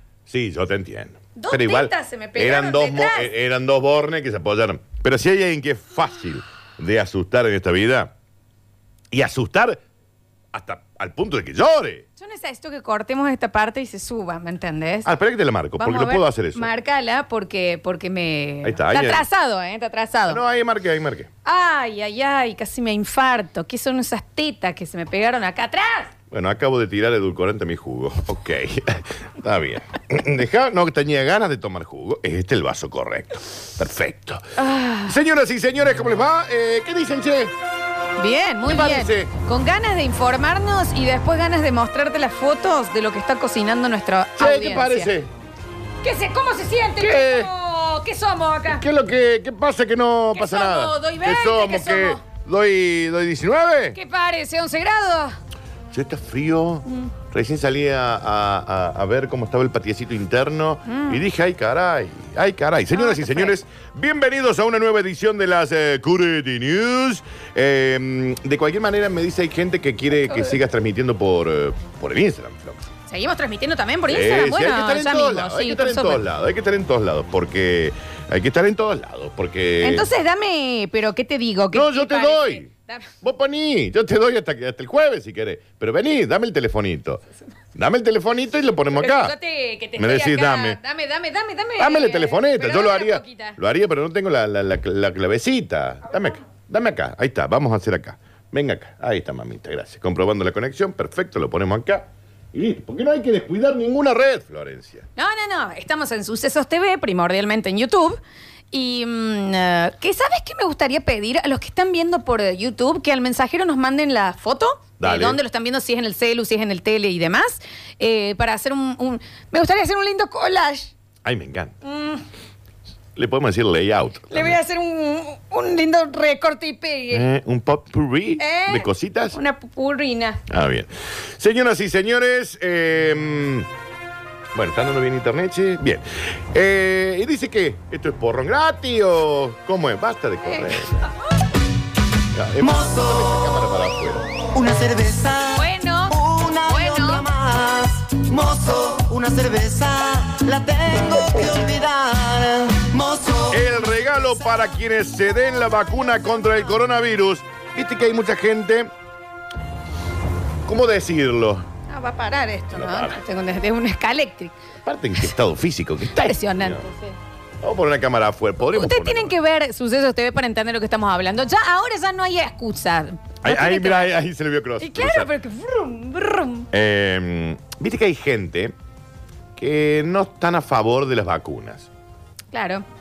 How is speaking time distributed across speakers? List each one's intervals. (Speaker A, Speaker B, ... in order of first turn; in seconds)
Speaker A: 0.3-8.1, 9.1-9.8, 10.5-12.1, 15.1-16.7, 18.6-19.3, 20.3-21.3, 26.3-34.5, 35.0-37.5, 38.7-39.3, 44.4-45.3, 47.0-47.5, 48.7-54.0, 55.9-72.9, 74.1-80.1, 81.7-82.7, 83.2-87.2, 87.8-89.3, 90.0-90.8, 91.8-105.1, 115.0-115.4, 121.2-121.8, 123.2-124.6, 127.1-129.4, 130.5-133.7, 134.5-141.1, 142.3-144.3, 153.5-158.9, 160.7-161.7, 162.7-163.2, 164.8-166.8, 167.6-169.3, 173.4-175.3, 176.7-178.8, 179.6-181.9
Speaker B: 1.4-3.3, 12.2-15.1, 15.8-20.4, 21.4-26.1, 34.6-35.2, 38.2-45.1, 46.0-48.9, 50.3-52.2, 53.9-55.4, 60.9-61.2, 62.9-63.5, 73.1-76.2, 79.8-83.1, 88.9-93.6, 105.2-108.2, 108.7-120.9, 121.8-122.2, 124.3-127.3, 128.4-130.4, 140.4-141.2, 145.6-147.2, 161.9-164.6, 166.1-167.2, 168.6-174.2, 174.8-176.7, 182.5-182.8
Speaker C: 142.6-143.5, 144.5-153.6